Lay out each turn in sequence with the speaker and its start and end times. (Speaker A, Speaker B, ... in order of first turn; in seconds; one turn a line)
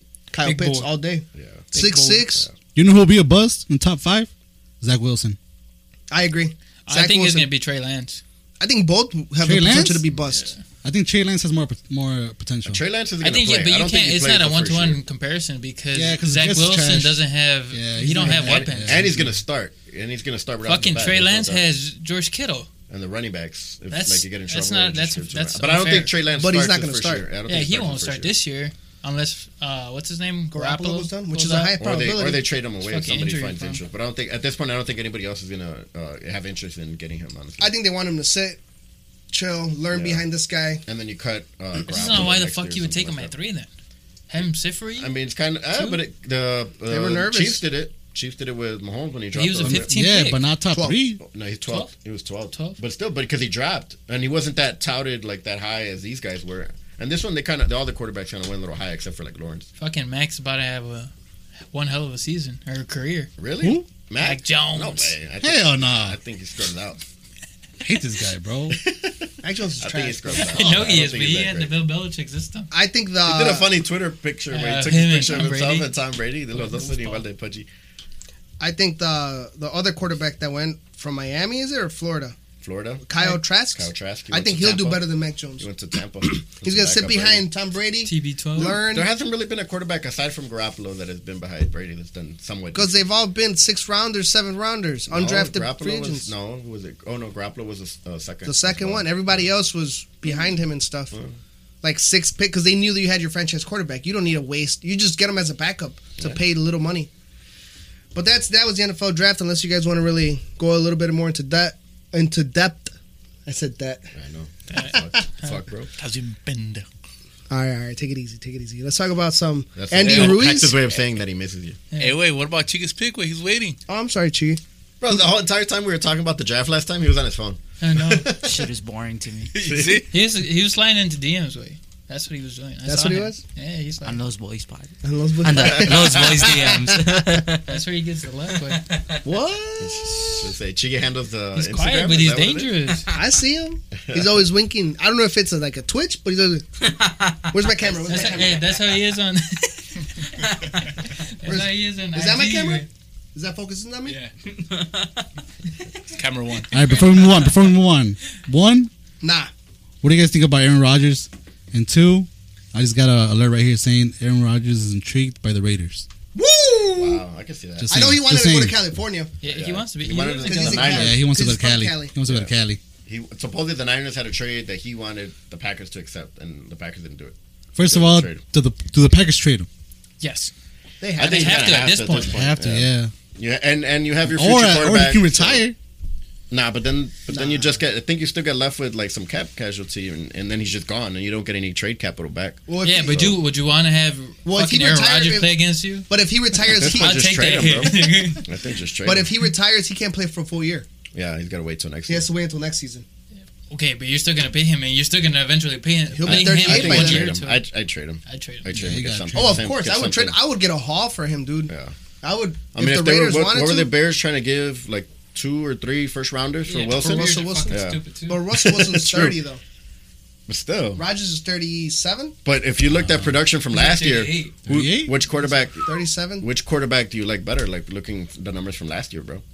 Speaker A: 0.3-2.5
Speaker B: 0.4-0.9
Speaker C: 1.4-1.7
Speaker B: 1.7-2.3
Speaker D: 2.8-4.3
Speaker D: 4.8-5.4
Speaker A: 6.1-7.5
Speaker B: 6.9-8.2
Speaker A: 8.6-10.5
Speaker D: 9.4-10.1
Speaker B: 10.3-10.6
Speaker D: 10.8-12.8
Speaker C: 12.6-15.0
Speaker B: 13.2-19.2
Speaker D: 15.9-17.2
Speaker D: 17.7-19.4
Speaker C: 18.2-21.6
Speaker B: 20.6-22.7
Speaker C: 22.9-28.3
Speaker B: 23.9-26.1
Speaker A: 26.3-27.2
Speaker B: 27.5-31.8
Speaker A: 30.5-32.4
Speaker C: 31.8-37.7
Speaker B: 32.8-33.8
Speaker A: 37.6-38.6
Speaker A: 39.3-40.8
Speaker C: 39.9-40.2
Speaker C: 40.9-43.3
Speaker B: 41.8-43.7
Speaker B: 44.3-45.1
Speaker C: 45.0-49.9
Speaker B: 45.7-46.0
Speaker A: 46.9-47.6
Speaker B: 49.3-50.4
Speaker D: 49.6-51.2
Speaker A: 50.7-51.0
Speaker C: 51.2-59.7
Speaker B: 51.7-51.9
Speaker B: 52.5-52.8
Speaker B: 59.8-61.1
Speaker B: 61.7-63.3
Speaker C: 63.4-67.0
Speaker B: 64.2-65.2
Speaker D: 65.4-66.2
Speaker D: 67.8-68.8
Speaker C: 68.7-71.7
Speaker A: 69.4-70.8
Speaker B: 70.4-72.7
Speaker A: 72.7-73.7
Speaker C: 73.2-77.7
Speaker B: 74.5-75.9
Speaker B: 76.5-77.2
Speaker A: 78.6-82.4
Speaker C: 82.6-83.1
Speaker A: 83.0-85.7
Speaker C: 83.7-85.0
Speaker C: 85.6-87.5
Speaker A: 86.4-89.1
Speaker B: 88.0-88.8
Speaker C: 88.6-93.1
Speaker A: 92.8-96.3
Speaker C: 95.1-99.5
Speaker A: 98.5-101.1
Speaker A: 101.8-107.1
Speaker A: 108.1-112.9
Speaker A: 113.5-114.1
Speaker C: 114.1-115.9
Speaker B: 114.7-115.6
Speaker E: 116.0-116.9
Speaker A: 117.5-120.8
Speaker C: 119.8-121.8
Speaker B: 121.9-122.2
Speaker E: 122.0-123.8
Speaker A: 123.9-124.6
Speaker C: 125.0-128.6
Speaker B: 127.8-128.3
Speaker F: 128.4-129.5
Speaker E: 129.5-130.1
Speaker C: 129.6-130.1
Speaker B: 130.1-134.2
Speaker A: 132.9-133.4
Speaker F: 134.0-137.8
Speaker A: 135.0-137.2
Speaker C: 135.6-136.5
Speaker B: 137.7-138.8
Speaker F: 138.7-139.2
Speaker A: 139.2-140.5
Speaker C: 139.8-142.7
Speaker B: 141.6-143.1
Speaker A: 143.1-146.7
Speaker C: 144.1-144.4
Speaker F: 146.8-148.4
Speaker A: 147.5-148.7
Speaker B: 148.1-150.3
Speaker F: 150.4-150.9
Speaker B: 151.1-152.9
Speaker A: 151.4-154.2
Speaker E: 154.1-154.3
Speaker F: 154.6-155.2
Speaker E: 156.1-156.8
Speaker D: 156.7-158.9
Speaker B: 156.8-157.4
Speaker A: 159.2-159.5
Speaker D: 160.0-166.1
Speaker A: 166.3-167.2
Speaker C: 167.0-168.1
Speaker D: 167.8-168.8
Speaker A: 167.9-169.3
Speaker B: 169.4-171.1
Speaker C: 169.4-171.2
Speaker A: 170.4-172.1
Speaker D: 170.9-172.8
Speaker C: 172.3-172.5
Speaker C: 173.1-178.4
Speaker D: 177.8-179.7
Speaker B: 180.2-180.5
Speaker A: 181.0-181.8
Speaker C: 181.2-185.6
Speaker B: 181.2-182.4
Speaker D: 182.2-183.1
Speaker D: 184.3-185.8
Speaker C: 186.5-193.4
Speaker A: 187.3-187.8
Speaker A: 192.7-193.4
Speaker B: 192.8-196.1
Speaker A: 194.4-195.6
Speaker A: 196.1-197.2
Speaker C: 196.6-199.3
Speaker B: 196.8-198.5
Speaker A: 199.1-200.9
Speaker C: 201.1-202.3
Speaker A: 202.1-203.1
Speaker B: 203.3-207.6
Speaker A: 206.1-207.3
Speaker C: 206.2-210.4
Speaker B: 208.2-208.9
Speaker D: 208.7-209.6
Speaker A: 209.3-213.9
Speaker C: 211.7-211.9
Speaker C: 212.7-218.0
Speaker B: 216.7-218.4
Speaker A: 216.9-219.6
Speaker C: 218.5-219.4
Speaker C: 220.5-221.0
Speaker A: 220.9-222.3
Speaker C: 222.4-229.4
Speaker D: 222.9-223.3
Speaker B: 223.7-224.6
Speaker D: 224.7-225.1
Speaker A: 225.9-226.4